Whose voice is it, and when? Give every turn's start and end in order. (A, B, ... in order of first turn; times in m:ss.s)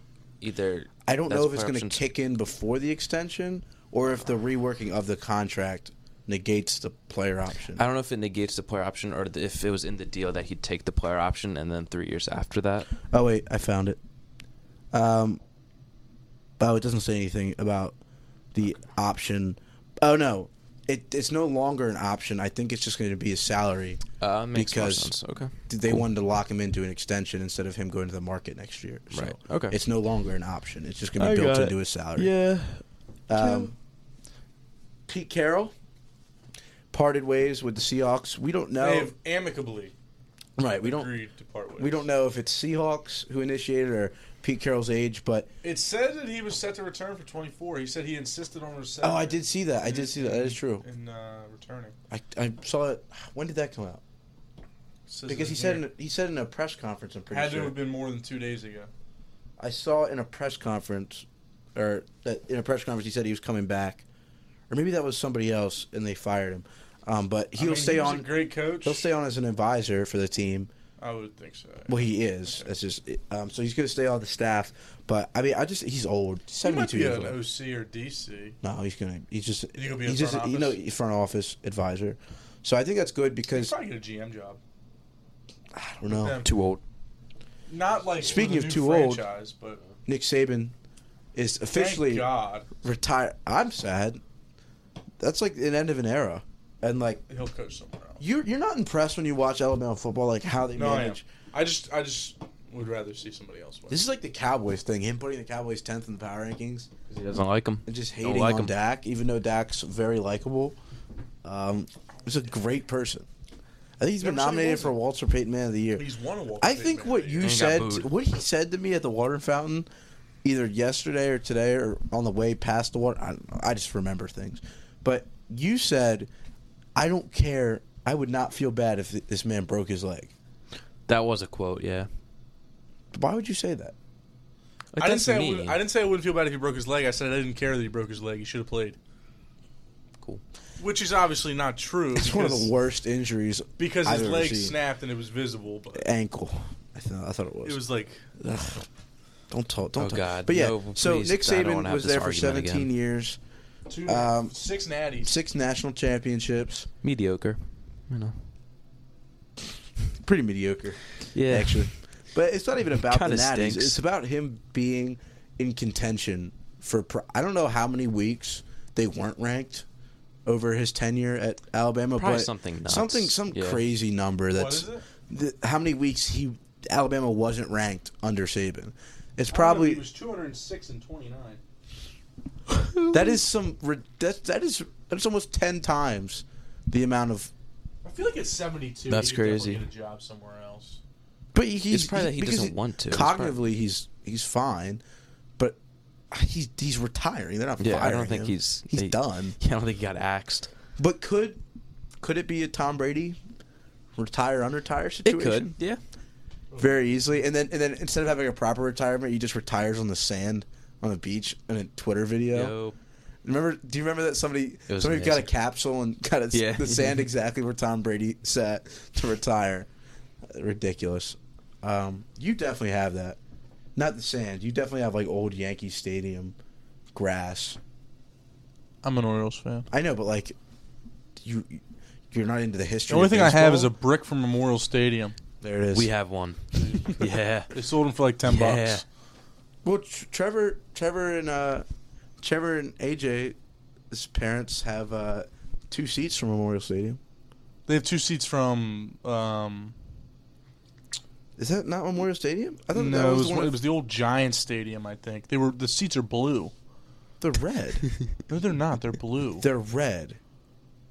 0:00.4-0:02.0 A
0:01.0-0:07.8 B
0:07.8-0:12.9 A
0:13.1-0:14.0 B
0:14.9-0:15.4 B
0:16.6-0:18.0 B
0:18.5-0:24.0 B
0:24.2-0:26.0 A
0:24.5-0:25.1 B
0:25.7-0:32.3 B
0:29.1-0:29.8 A
0:31.2-0:33.7 A
0:33.3-0:33.7 B
0:35.1-0:35.7 B
0:36.9-0:39.1 B
0:38.8-0:39.9 C
0:40.6-0:41.1 B
0:40.8-0:42.1 C
0:41.8-0:45.5 B
0:45.6-0:51.9 C
0:49.0-0:50.8 B
0:52.1-0:54.0 B
0:55.1-0:55.8 C
0:55.3-0:57.8 B
0:57.3-0:58.9 C
0:59.6-1:04.0 B
1:04.7-1:10.7 B
1:07.6-1:09.0 C
1:11.0-1:12.1 C
1:11.9-1:17.4 B
1:16.6-1:18.6 C
1:18.6-1:23.7 B
1:19.8-1:20.8 C
1:23.5-1:24.6 C
1:25.7-1:26.4 B
1:26.1-1:26.5 C
1:26.4-1:26.8 A
1:27.7-1:29.8 C
1:28.2-1:29.2 B
1:30.0-1:30.7 B
1:31.3-1:32.3 B
1:31.7-1:32.7 C
1:32.8-1:34.2 B
1:35.2-1:37.2 B
1:37.3-1:38.2 C
1:38.2-1:41.2 B
1:40.7-1:44.0 C
1:43.9-1:46.9 B
1:47.1-1:48.7 A
1:47.8-1:50.8 B
1:51.4-1:53.3 B
1:54.0-1:56.0 B
1:54.2-1:55.0 C
1:56.0-1:57.5 C
1:56.6-1:59.9 B
1:57.4-1:58.1 A
2:00.4-2:06.3 B
2:06.9-2:10.3 B
2:11.1-2:12.1 A
2:13.1-2:13.9 B
2:14.9-2:15.8 A
2:15.0-2:19.0 C
2:20.8-2:22.7 C
2:22.1-2:24.7 B
2:23.8-2:26.1 C
2:25.9-2:27.8 B
2:27.6-2:28.2 C
2:28.4-2:28.9 B
2:29.5-2:33.4 B
2:30.0-2:32.9 A
2:33.9-2:35.3 C
2:34.0-2:34.5 B
2:35.2-2:36.9 B
2:37.0-2:38.4 A
2:40.2-2:49.8 B
2:41.3-2:41.9 A
2:43.0-2:44.0 A
2:50.4-3:00.0 B
2:52.2-2:53.8 A
2:54.5-2:55.0 C
2:59.5-3:01.6 C
3:03.1-3:07.5 B
3:08.0-3:11.0 C
3:09.1-3:09.8 A
3:11.5-3:15.0 B
3:11.9-3:13.6 A
3:16.3-3:19.6 B
3:17.8-3:20.7 A
3:21.0-3:21.6 B
3:22.2-3:23.4 B
3:24.2-3:25.7 B
3:25.2-3:26.0 A
3:26.7-3:27.0 C
3:26.8-3:32.7 B
3:32.5-3:32.9 A
3:33.4-3:39.9 B
3:34.9-3:35.5 A
3:36.5-3:37.2 A
3:40.5-3:43.4 B
3:44.0-3:46.5 B
3:47.1-3:47.8 B
3:49.0-3:49.9 C
3:49.9-3:50.6 B
3:51.4-3:53.9 B
3:53.1-3:55.4 C
3:55.6-3:56.1 B
3:55.9-3:57.7 A
3:56.8-3:59.0 C
3:58.4-3:59.0 A
3:59.8-4:01.8 B
4:02.4-4:03.6 B
4:04.1-4:07.2 B
4:07.9-4:09.9 C
4:11.6-4:13.8 B
4:12.9-4:16.7 C
4:17.4-4:18.1 B
4:18.5-4:19.6 C
4:19.6-4:20.4 B